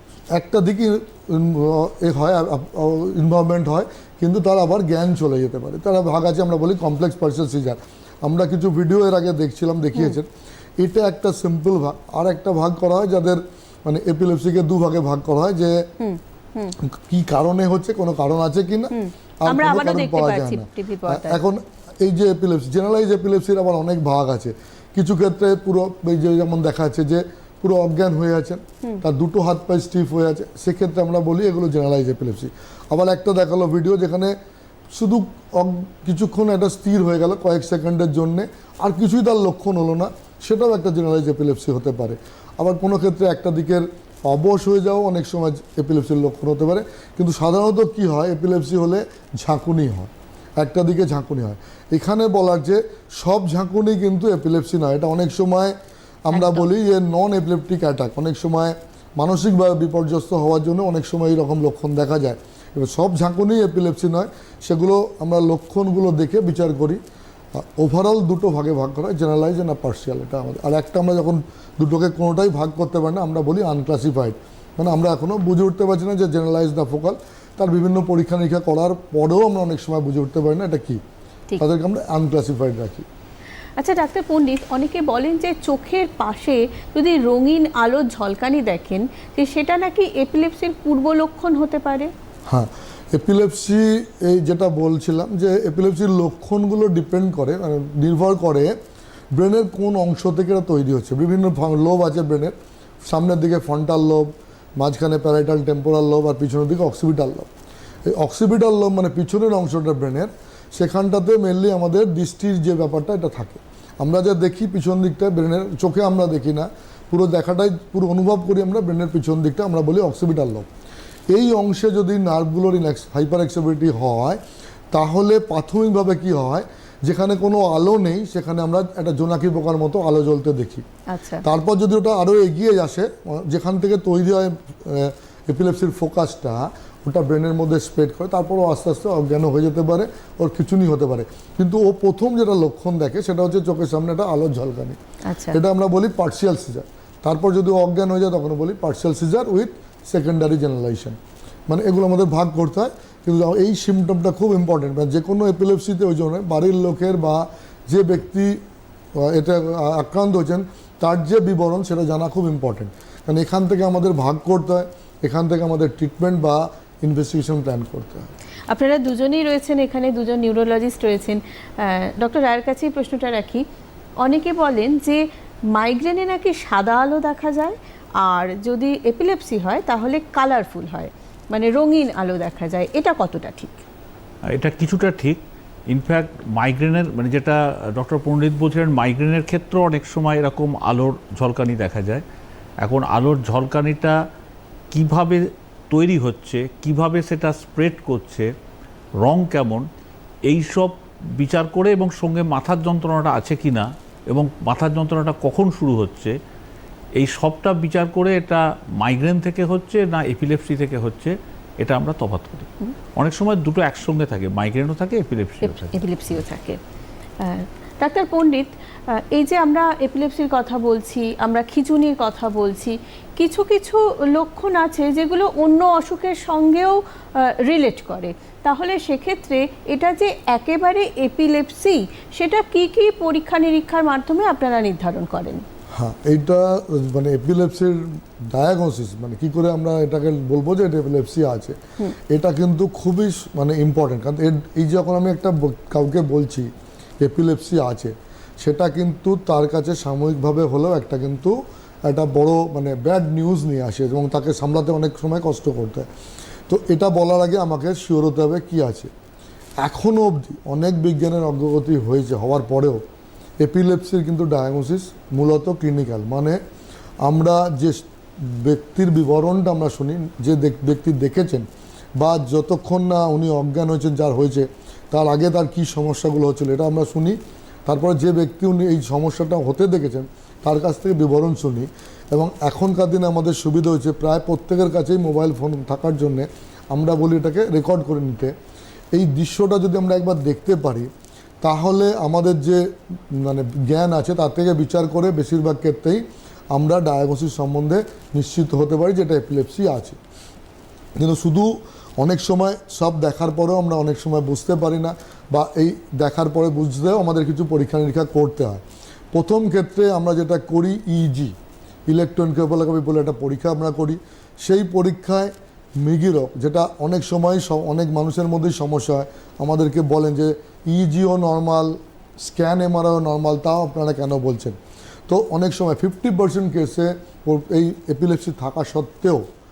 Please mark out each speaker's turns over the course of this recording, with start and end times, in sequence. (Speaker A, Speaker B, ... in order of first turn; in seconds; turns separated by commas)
Speaker A: 0.3-15.8, Speaker B: 16.0-16.8, Speaker A: 16.8-34.3, Speaker B: 18.9-21.4, Speaker A: 34.9-55.7, Speaker A: 56.3-67.0, Speaker B: 56.3-56.6, Speaker A: 67.5-81.0, Speaker A: 81.6-83.1, Speaker B: 83.8-92.1, Speaker A: 92.5-98.7, Speaker A: 99.3-107.5, Speaker A: 108.1-120.7, Speaker A: 121.3-124.4, Speaker A: 124.9-130.8, Speaker B: 131.1-131.4, Speaker A: 131.4-145.0, Speaker B: 145.3-145.6, Speaker A: 145.5-151.2, Speaker A: 151.7-158.6, Speaker A: 159.2-168.3, Speaker B: 168.7-173.6, Speaker B: 174.2-183.8, Speaker C: 184.5-192.2, Speaker C: 192.8-194.2, Speaker C: 194.9-198.5, Speaker C: 199.2-199.8, Speaker C: 200.5-206.3, Speaker C: 207.2-216.0, Speaker B: 215.6-216.8, Speaker B: 217.4-235.6, Speaker A: 235.9-246.7, Speaker A: 247.2-251.5, Speaker A: 252.1-256.1, Speaker A: 256.7-259.1, Speaker A: 259.8-263.0, Speaker A: 263.6-266.6, Speaker A: 267.2-271.7, Speaker A: 272.2-288.5, Speaker A: 289.1-291.1, Speaker A: 291.6-292.8, Speaker A: 293.3-296.2, Speaker A: 296.7-300.2, Speaker A: 301.2-308.8, Speaker A: 309.3-311.5, Speaker A: 312.1-324.8, Speaker A: 325.3-329.4